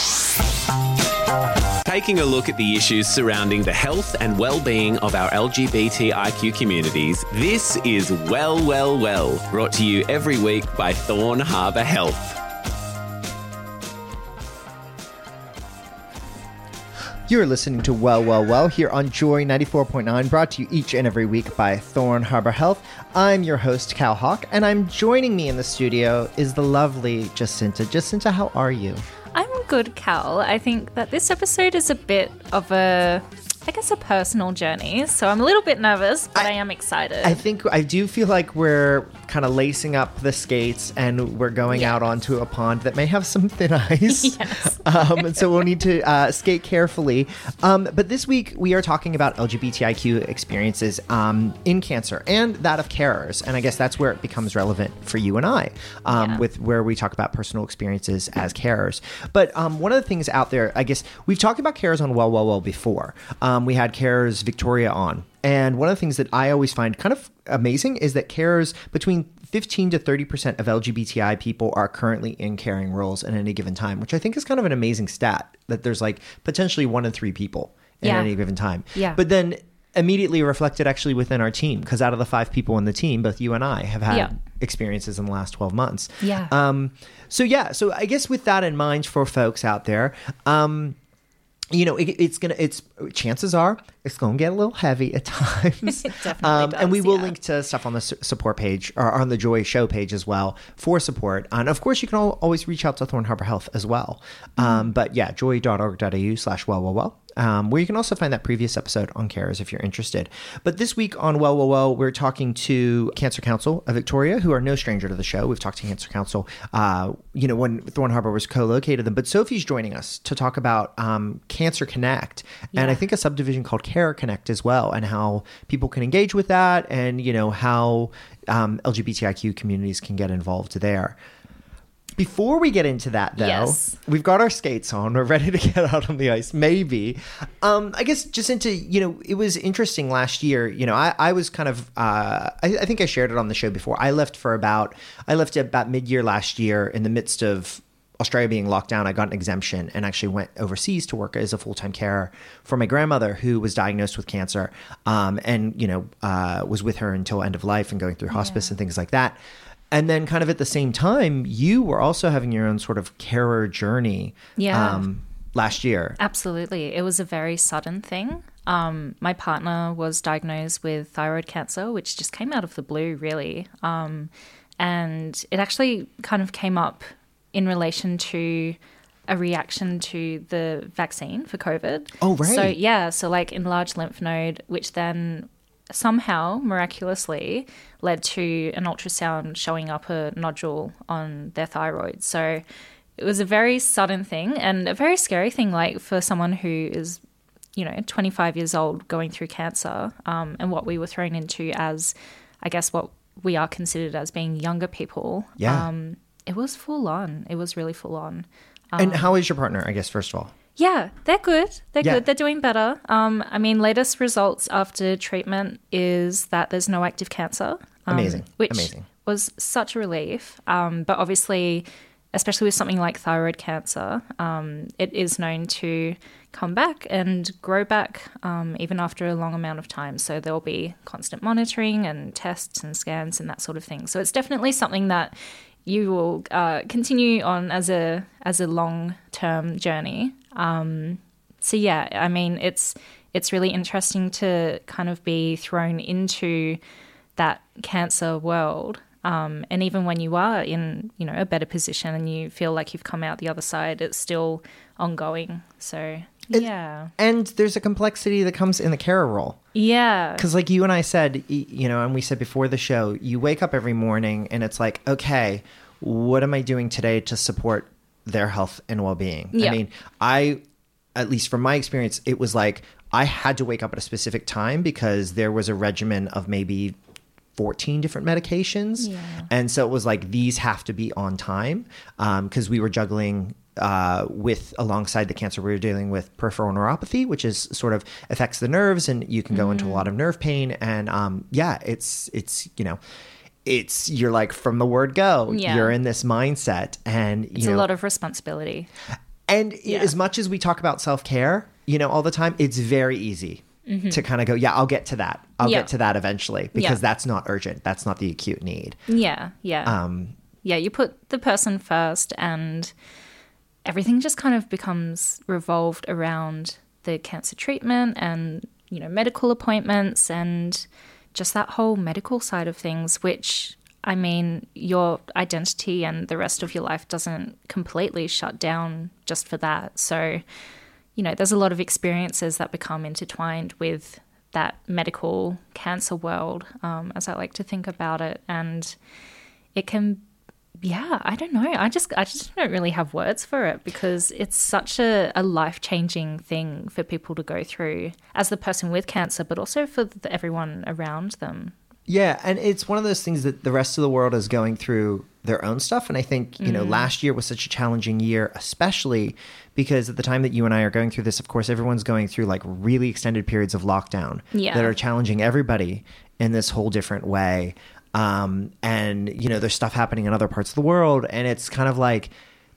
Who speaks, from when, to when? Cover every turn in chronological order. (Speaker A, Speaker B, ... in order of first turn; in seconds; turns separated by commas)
Speaker A: 1.9-12.4, Speaker B: 17.3-29.0, Speaker C: 29.4-37.4, Speaker B: 37.2-91.0, Speaker C: 41.7-42.0, Speaker C: 44.1-45.5, Speaker C: 56.1-56.4, Speaker C: 78.0-78.3, Speaker C: 79.0-79.2, Speaker C: 86.2-86.5, Speaker B: 91.7-131.2, Speaker C: 95.9-97.3, Speaker C: 104.6-104.9, Speaker C: 122.7-123.0, Speaker B: 132.2-159.4, Speaker C: 133.4-134.0, Speaker C: 158.3-158.7, Speaker B: 159.9-166.2, Speaker C: 164.6-165.1, Speaker C: 166.2-178.8, Speaker C: 179.3-192.6, Speaker B: 182.2-182.8, Speaker C: 193.2-197.2, Speaker C: 197.8-209.3, Speaker B: 205.6-205.9, Speaker B: 209.0-210.5, Speaker C: 210.8-246.8, Speaker B: 218.1-219.1, Speaker C: 247.4-257.1, Speaker B: 256.5-259.6, Speaker C: 259.7-260.5, Speaker B: 260.4-270.6, Speaker C: 269.5-269.8, Speaker B: 271.2-277.0, Speaker B: 277.6-293.0, Speaker C: 279.0-279.5, Speaker C: 289.5-290.1, Speaker B: 293.6-297.9, Speaker C: 295.5-295.9, Speaker C: 297.6-298.9, Speaker B: 299.5-309.0, Speaker C: 299.9-300.1, Speaker C: 303.9-304.2, Speaker C: 305.6-305.9, Speaker C: 306.7-307.0, Speaker C: 309.1-310.0, Speaker B: 309.9-310.4, Speaker C: 310.6-312.9, Speaker C: 313.9-330.4, Speaker C: 331.1-339.0, Speaker C: 339.8-340.2, Speaker C: 340.8-351.7, Speaker B: 352.1-372.3, Speaker C: 356.6-357.1, Speaker C: 364.5-364.9